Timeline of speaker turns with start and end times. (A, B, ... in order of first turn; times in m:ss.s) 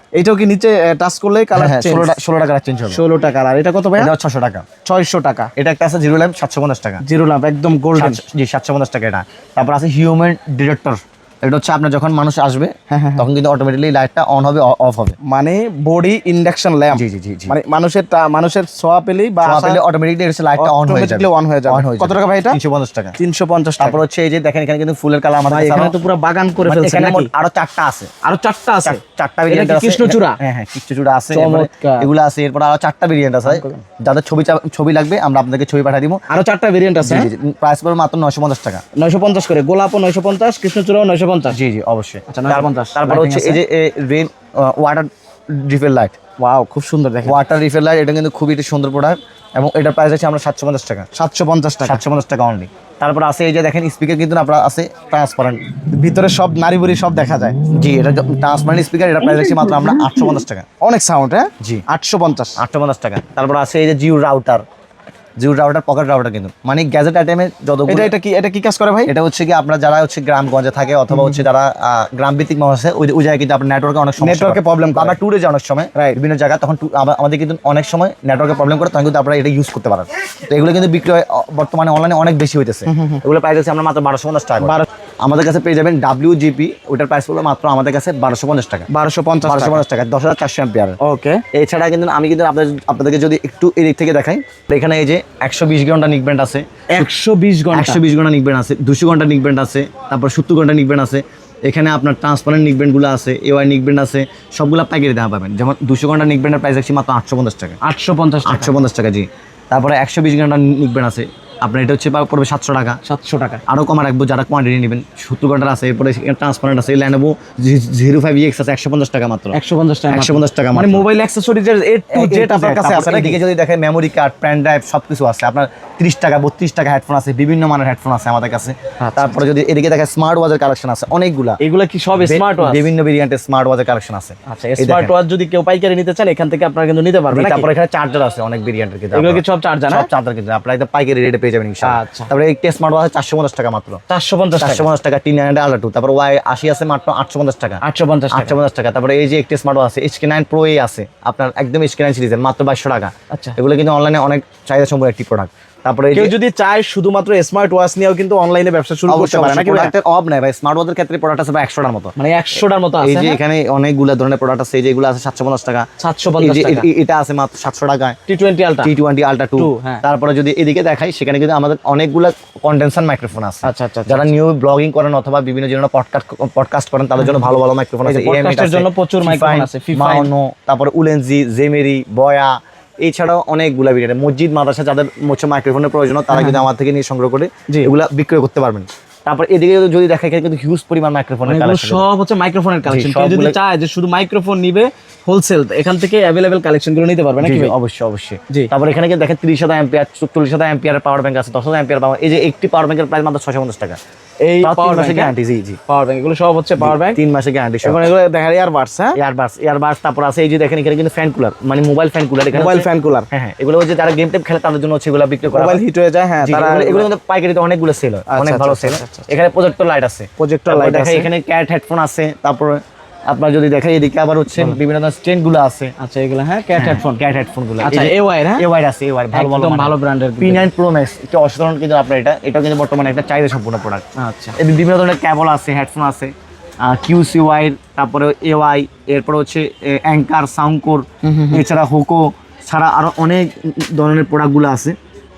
0:00.2-0:02.2 A
0:01.5-0:03.0 B
0:02.9-0:04.1 A
0:04.0-0:04.7 B
0:04.8-0:05.5 A
0:05.6-0:07.0 B
0:07.0-0:08.2 A
0:08.0-0:15.2 B
0:12.9-0:13.3 A
0:15.2-0:19.8 A
0:16.9-0:17.6 B
0:19.4-0:23.2 B
0:20.6-0:22.6 A
0:23.2-0:24.0 A
0:23.8-0:25.9 B
0:25.5-0:27.3 A
0:26.7-0:28.1 B
0:28.2-0:30.4 A
0:28.8-0:36.2 B
0:31.3-0:32.1 A
0:33.5-0:33.8 A
0:36.3-0:37.3 A
0:37.0-0:38.8 B
0:39.0-0:41.6 A
0:41.5-0:46.2 B
0:42.3-0:43.6 A
0:46.4-0:47.4 A
0:47.2-0:51.1 B
0:51.1-0:52.0 A
0:51.8-0:55.6 B
0:55.9-0:57.6 A
0:57.7-1:00.7 B
0:59.3-1:00.3 A
1:00.8-1:02.6 A
1:02.6-1:04.6 B
1:05.4-1:08.1 B
1:07.9-1:09.1 A
1:09.1-1:28.9 B
1:11.1-1:11.4 A
1:14.2-1:15.2 A
1:22.9-1:23.2 A
1:24.6-1:24.9 A
1:28.9-1:29.8 A
1:29.4-1:31.0 B
1:31.0-1:31.4 A
1:31.5-1:37.0 B
1:36.9-1:38.0 A
1:37.7-1:47.8 B
1:47.8-1:48.8 A
1:48.4-1:53.0 B
1:53.0-1:53.6 A
1:53.7-1:59.6 B
1:59.5-2:03.4 A
2:00.1-2:01.0 B
2:02.1-2:11.6 B
2:09.0-2:09.4 A
2:11.6-2:12.9 A
2:12.2-2:15.1 B
2:14.5-2:17.7 A
2:17.3-2:24.0 B
2:19.1-2:20.1 A
2:21.8-2:22.3 A
2:24.1-2:24.9 A
2:24.6-2:36.3 B
2:27.8-2:28.6 A
2:36.1-2:40.0 A
2:39.1-2:42.2 B
2:42.2-2:43.4 A
2:43.0-2:45.9 B
2:46.0-2:46.9 A
2:46.4-2:48.2 B
2:48.3-2:48.9 A
2:48.8-3:12.0 B
2:49.6-2:50.0 A
2:53.6-2:54.3 A
2:57.2-2:57.5 A
2:58.0-3:00.3 A
3:06.3-3:06.7 A
3:11.5-3:17.8 A
3:12.9-3:13.6 B
3:17.4-3:24.0 B
3:24.4-3:25.4 A
3:24.6-3:25.8 B
3:25.9-3:27.2 A
3:26.8-3:28.1 B
3:27.8-3:29.2 A
3:29.2-3:35.8 B
3:32.5-3:33.3 A
3:35.5-3:37.1 A
3:36.4-3:45.9 B
3:38.3-3:39.3 A
3:40.4-3:41.3 A
3:46.0-3:47.2 A
3:46.8-3:54.0 B
3:47.8-3:48.6 A
3:49.3-3:50.7 A
3:54.2-3:54.6 A
3:54.6-4:05.0 B
4:01.2-4:01.6 A